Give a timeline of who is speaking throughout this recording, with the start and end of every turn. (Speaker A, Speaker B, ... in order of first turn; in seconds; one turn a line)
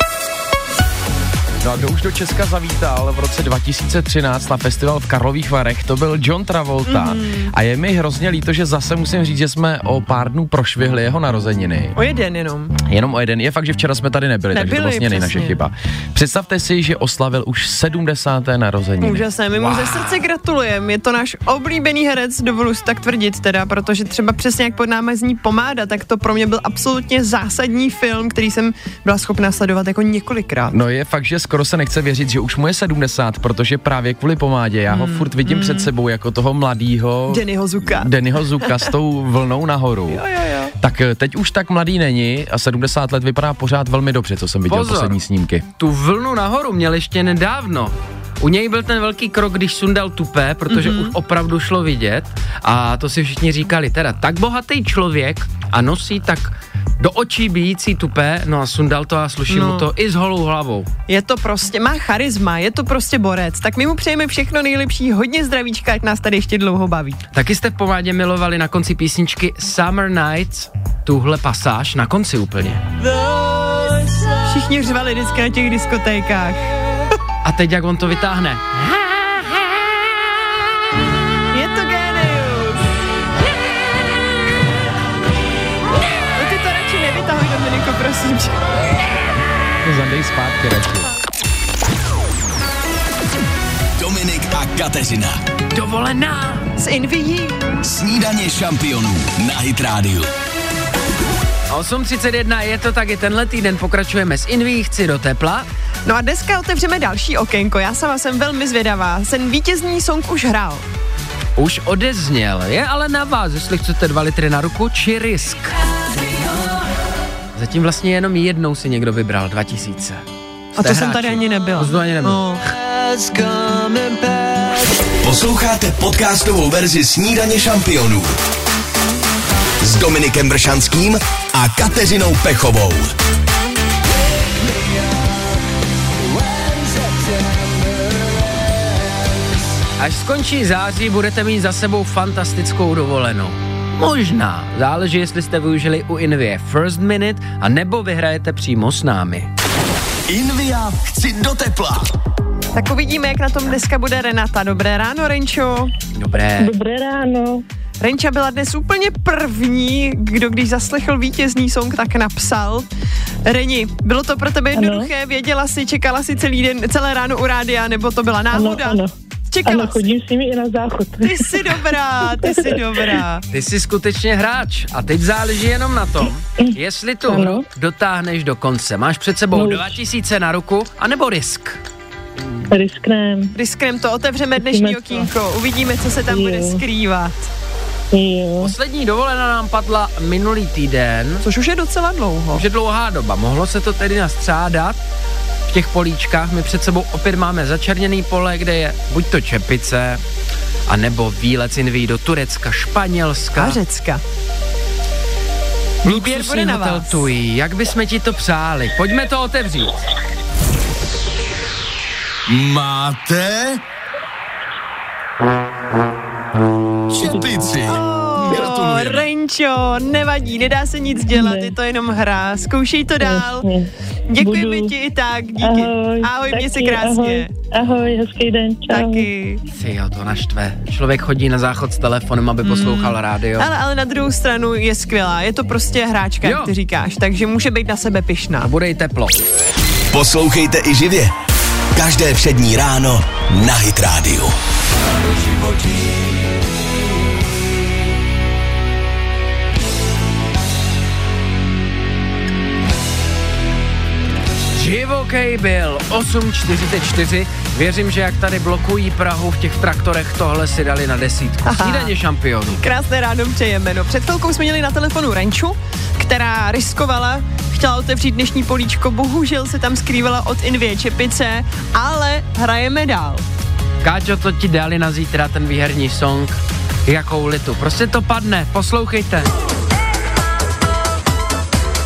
Speaker A: 1.6-12.0
Speaker B: 6.8-7.5
Speaker B: 11.9-12.8
Speaker A: 12.8-19.3
Speaker B: 14.5-15.6
Speaker B: 19.0-30.7
Speaker C: 19.5-20.2
Speaker A: 30.7-40.2
Speaker B: 34.9-35.9
Speaker B: 37.3-38.1
Speaker B: 38.6-38.9
Speaker B: 40.1-40.7
Speaker A: 40.8-45.7
Speaker C: 44.7-45.2
Speaker C: 45.8-60.9
Speaker B: 50.7-51.1
Speaker B: 59.5-59.9
Speaker B: 61.1-67.2
Speaker C: 67.3-72.8
Speaker B: 74.4-76.7
Speaker C: 77.4-78.6
Speaker B: 81.5-82.9
Speaker B: 86.3-88.5
Speaker A: 89.8-91.1
Speaker D: 94.0-95.4
Speaker C: 95.7-96.7
Speaker B: 96.8-97.8
Speaker D: 97.8-100.3
Speaker C: 101.7-105.7
Speaker B: 106.0-110.8
Speaker C: 111.5-115.8
Speaker C: 117.5-120.2
Speaker C: 120.8-124.9
Speaker B: 120.8-122.6
Speaker D: 125.2-128.4
Speaker D: 129.8-133.1
Speaker C: 140.0-149.5
Speaker D: 150.3-152.1
Speaker B: 152.7-155.9
Speaker C: 156.1-156.7
Speaker E: 156.6-157.6
Speaker B: 158.0-162.9
Speaker B: 163.4-170.1
Speaker E: 164.7-165.1
Speaker E: 168.5-169.1
Speaker E: 169.6-171.8
Speaker B: 171.2-173.4
Speaker E: 172.4-172.8
Speaker C: 173.5-181.8
Speaker E: 176.6-177.6
Speaker E: 179.5-180.0
Speaker E: 182.7-183.6
Speaker B: 183.5-187.5
Speaker E: 184.6-185.3
Speaker E: 186.3-186.8
Speaker E: 188.1-188.7
Speaker C: 188.6-191.4
Speaker B: 191.4-192.6
Speaker C: 192.5-195.0
Speaker C: 195.7-200.2
Speaker C: 200.9-203.8
Speaker B: 203.5-204.2
Speaker B: 206.0-207.3
Speaker C: 206.0-209.9
Speaker D: 212.5-213.8
Speaker D: 217.1-219.2
Speaker B: 217.8-223.7
Speaker E: 221.3-221.7
Speaker E: 223.2-224.9
Speaker B: 224.3-227.5
Speaker E: 225.6-229.3
Speaker B: 228.9-229.6
Speaker C: 229.7-233.7
Speaker B: 232.6-238.7
Speaker C: 236.4-236.7
Speaker C: 238.6-239.3
Speaker D: 240.1-241.3
Speaker D: 241.9-244.5
Speaker C: 254.7-262.8
Speaker B: 261.6-262.1
Speaker B: 262.8-273.4
Speaker C: 274.0-279.5